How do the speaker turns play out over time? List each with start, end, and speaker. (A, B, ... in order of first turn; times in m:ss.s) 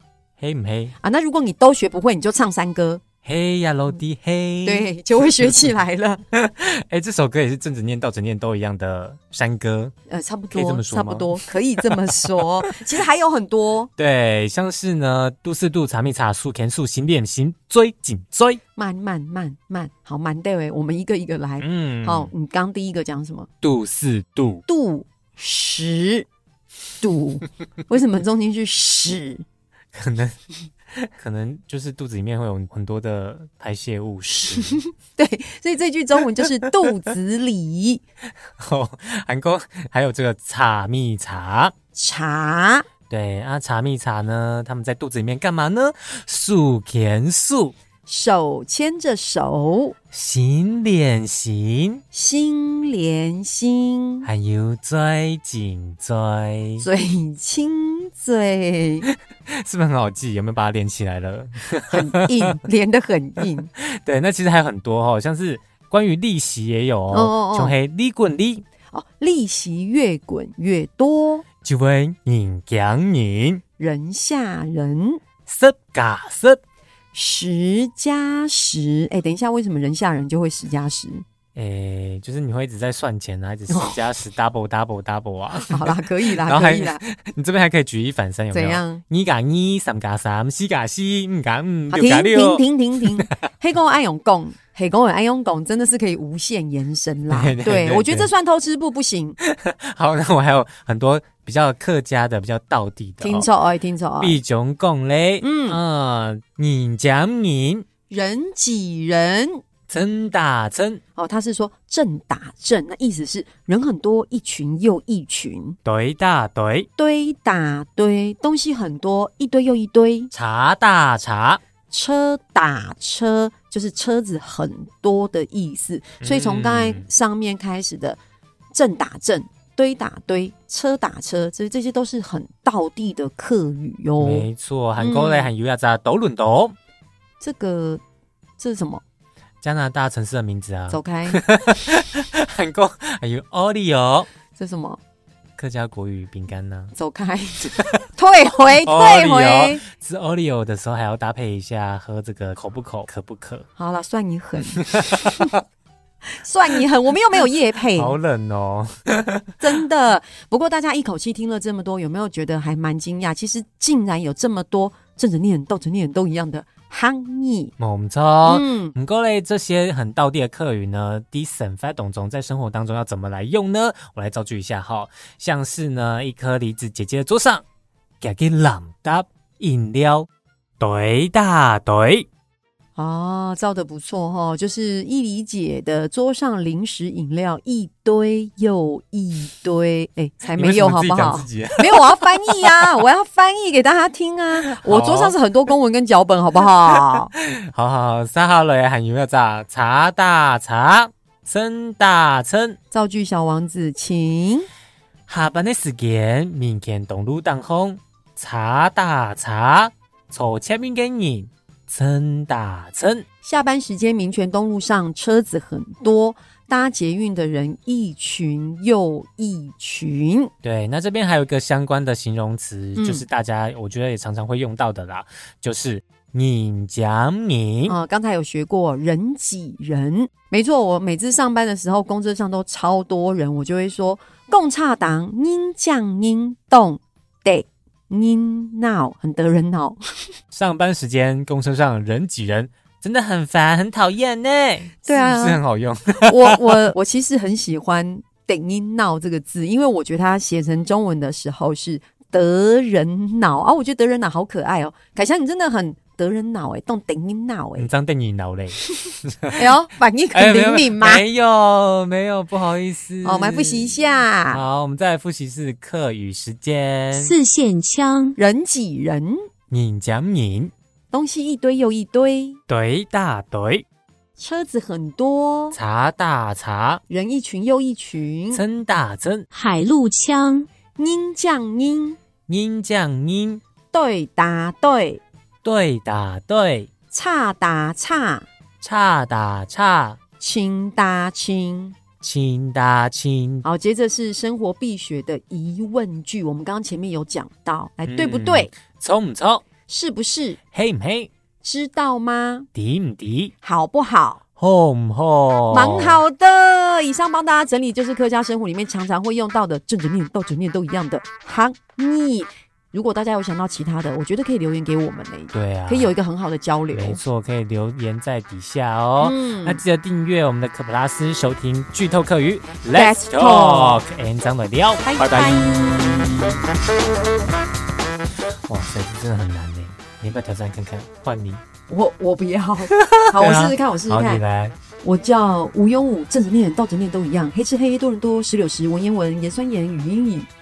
0:00.4-0:01.0 A
0:01.0-0:03.0 B
0:03.2-0:05.7 A
0:04.6-0:06.2 B
0:06.3-0:09.9 A
0:10.1-0:13.9 B
0:10.5-0:12.4 A
0:14.0-0:18.6 A
0:18.8-0:23.5 B
0:21.6-0:22.3 A
0:23.6-0:24.6 A
0:24.7-0:26.3 B
0:27.0-0:29.4 B
0:29.9-0:30.4 A
0:30.9-0:34.8 A
0:35.2-0:38.0 B
0:38.6-0:41.7 A
0:41.9-0:42.9 B
0:43.1-0:47.8 A
0:48.1-0:49.9 B
0:50.1-0:52.0 A
0:52.1-0:54.3 B
0:54.2-0:56.8 A
0:56.8-0:59.1 B
0:59.5-1:02.3 A
1:01.9-1:03.7 B
1:03.8-1:08.6 A
1:07.1-1:07.8 B
1:08.9-1:11.4 B
1:11.6-1:13.6 A
1:13.8-1:15.2 B
1:15.4-1:16.6 A
1:17.1-1:21.2 B
1:21.5-1:33.3 A
1:23.7-1:24.0 B
1:25.7-1:27.0 B
1:28.5-1:29.0 B
1:31.9-1:39.4 B
1:37.3-1:38.3 A
1:39.4-1:43.5 A
1:43.2-1:44.4 B
1:44.2-1:47.8 A
1:45.4-1:45.8 B
1:48.1-1:49.6 B
1:49.9-1:51.0 A
1:51.2-1:55.8 B
1:55.8-1:56.9 A
1:57.0-2:00.3 B
2:00.3-2:01.6 A
2:01.9-2:08.2 B
2:06.2-2:07.1 A
2:08.7-2:15.5 B
2:14.2-2:16.7 A
2:17.4-2:18.0 B
2:18.6-2:19.0 B
2:19.6-2:24.3 A
2:20.9-2:21.4 B
2:24.6-2:25.0 B
2:25.6-2:26.9 A
2:27.0-2:29.8 B
2:27.6-2:28.0 A
2:28.8-2:33.6 A
2:33.8-2:35.5 B
2:34.8-2:35.6 A
2:36.4-2:38.2 B
2:38.0-2:39.6 A
2:39.6-2:47.7 B
2:47.8-2:57.6 A
2:48.4-2:48.9 B
2:58.2-3:00.3 A
3:00.8-3:02.3 A
3:03.0-3:17.3 B
3:10.5-3:12.9 A
3:14.6-3:15.3 A
3:17.0-3:22.8 A
3:22.9-3:24.7 B
3:25.3-3:33.2 A
3:33.4-3:40.5 B
3:40.6-3:48.0 A
3:43.0-3:43.2 B
3:47.9-4:00.3 B
4:00.5-4:06.9 A
4:05.0-4:05.6 B
4:06.2-4:17.9 B
4:17.8-4:19.7 A
4:19.5-4:21.2 B
4:20.3-4:27.4 A
4:23.2-4:24.6 B
4:27.2-4:28.4 C
4:28.4-4:29.4 B
4:29.7-4:30.7 A
4:31.1-4:32.6 B
4:32.7-4:33.8 A
4:34.4-4:35.8 B
4:35.7-4:37.0 A
4:37.1-4:38.6 B
4:38.5-4:39.5 A
4:39.5-4:40.7 C
4:41.0-4:42.2 B
4:42.5-4:43.6 A
4:43.9-4:45.2 B
4:45.6-4:46.9 A
4:47.1-4:48.5 B
4:48.8-4:50.2 A
4:50.4-4:51.9 B
4:52.2-4:53.6 A
4:53.6-4:58.7 B
4:58.0-4:59.6 A
4:59.9-5:00.6 B
5:00.7-5:01.3 A
5:01.6-5:02.7 B
5:02.7-5:03.5 A
5:03.6-5:04.4 B
5:04.6-5:06.2 A
5:05.7-5:17.2 B
5:15.5-5:16.1 A
5:16.9-5:26.6 A
5:19.2-5:19.8 B
5:22.9-5:24.0 B
5:25.0-5:26.5 B
5:28.6-5:31.6 A
5:31.9-5:34.4 B
5:32.9-5:34.7 A
5:35.0-5:40.5 B